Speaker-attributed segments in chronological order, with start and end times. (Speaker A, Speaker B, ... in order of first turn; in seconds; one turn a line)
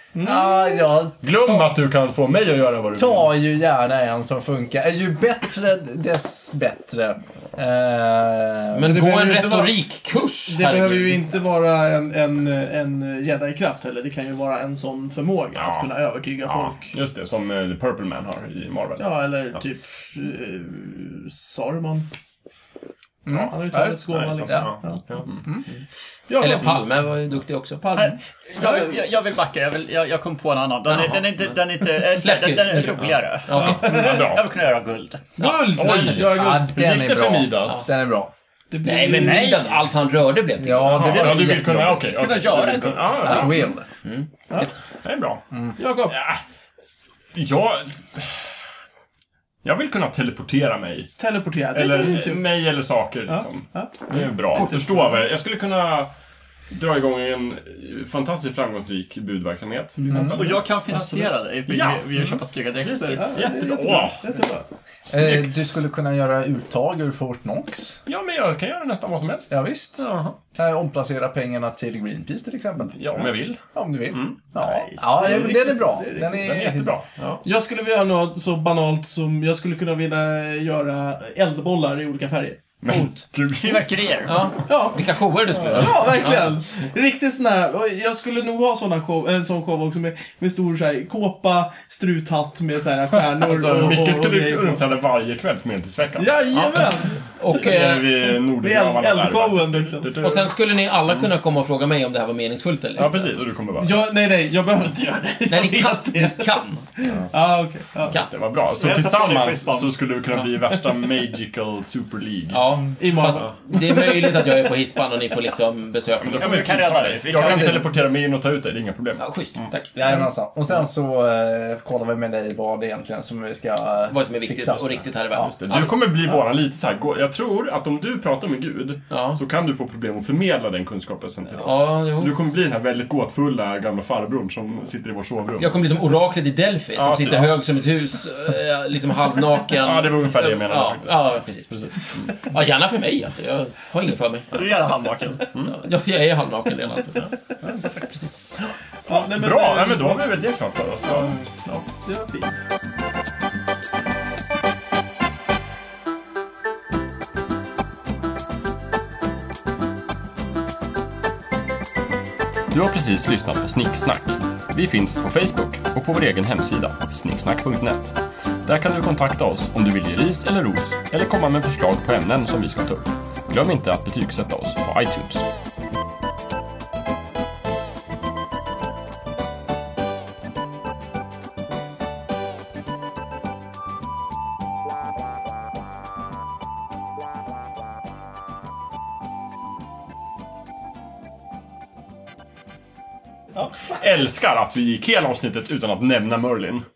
Speaker A: 0.1-0.9
Speaker B: 0.2-1.6
Speaker C: 1.2-3.3
Speaker B: 3.0-9.0
Speaker D: 8.7-11.2
Speaker A: 8.9-9.7
Speaker A: 10.5-16.9
Speaker C: 15.6-19.1
Speaker A: 19.0-22.1
Speaker B: 23.3-24.8
Speaker C: 23.3-23.5
Speaker A: 23.5-25.1
Speaker C: 24.1-25.5
Speaker B: 25.4-25.7
Speaker A: 26.3-26.9
Speaker D: 26.4-27.8
Speaker A: 27.8-29.0
Speaker E: 27.9-35.4
Speaker D: 30.9-33.9
Speaker A: 33.5-34.3
Speaker C: 33.6-34.5
Speaker A: 35.4-36.7
Speaker D: 35.4-36.3
Speaker B: 35.5-38.3
Speaker C: 35.6-37.9
Speaker A: 38.7-39.6
Speaker D: 38.8-42.1
Speaker E: 39.0-39.8
Speaker B: 40.6-41.8
Speaker C: 40.9-43.7
Speaker E: 41.0-43.4
Speaker D: 43.2-44.8
Speaker B: 43.3-43.9
Speaker C: 44.9-45.5
Speaker A: 45.8-46.1
Speaker C: 46.1-46.4
Speaker C: 47.3-48.5
Speaker C: 49.6-51.1
Speaker A: 51.2-52.6
Speaker C: 51.7-56.1
Speaker A: 53.3-54.0
Speaker C: 56.7-60.6
Speaker E: 60.0-63.4
Speaker B: 60.1-60.6
Speaker C: 61.7-64.2
Speaker A: 63.1-64.7
Speaker B: 65.1-68.0
Speaker C: 65.1-65.5
Speaker C: 68.0-70.4
Speaker B: 69.5-77.0
Speaker C: 72.9-74.4
Speaker A: 74.5-76.4
Speaker C: 76.4-77.4
Speaker A: 77.4-82.7
Speaker C: 82.8-84.0
Speaker E: 82.9-84.4
Speaker D: 84.3-86.5
Speaker A: 84.7-94.8
Speaker C: 93.3-96.9
Speaker A: 96.2-97.7
Speaker D: 97.4-98.3
Speaker C: 97.5-100.5
Speaker A: 98.4-100.2
Speaker D: 100.2-103.3
Speaker C: 103.0-104.0
Speaker A: 103.8-108.2
Speaker D: 105.5-106.9
Speaker C: 108.0-113.5
Speaker E: 108.7-110.0
Speaker D: 112.5-117.6
Speaker A: 113.0-114.5
Speaker C: 116.2-119.6
Speaker E: 116.4-117.9
Speaker D: 119.2-120.0
Speaker B: 120.0-125.5
Speaker D: 124.1-126.0
Speaker C: 125.4-135.8
Speaker D: 129.1-129.4
Speaker D: 131.6-132.3
Speaker D: 135.6-144.6
Speaker C: 136.9-137.6
Speaker C: 139.6-142.3
Speaker E: 144.5-145.5
Speaker C: 145.5-145.8
Speaker D: 145.6-148.4
Speaker A: 149.1-150.3
Speaker C: 149.1-151.4
Speaker A: 151.2-152.6
Speaker C: 162.7-175.5
Speaker C: 193.9-196.8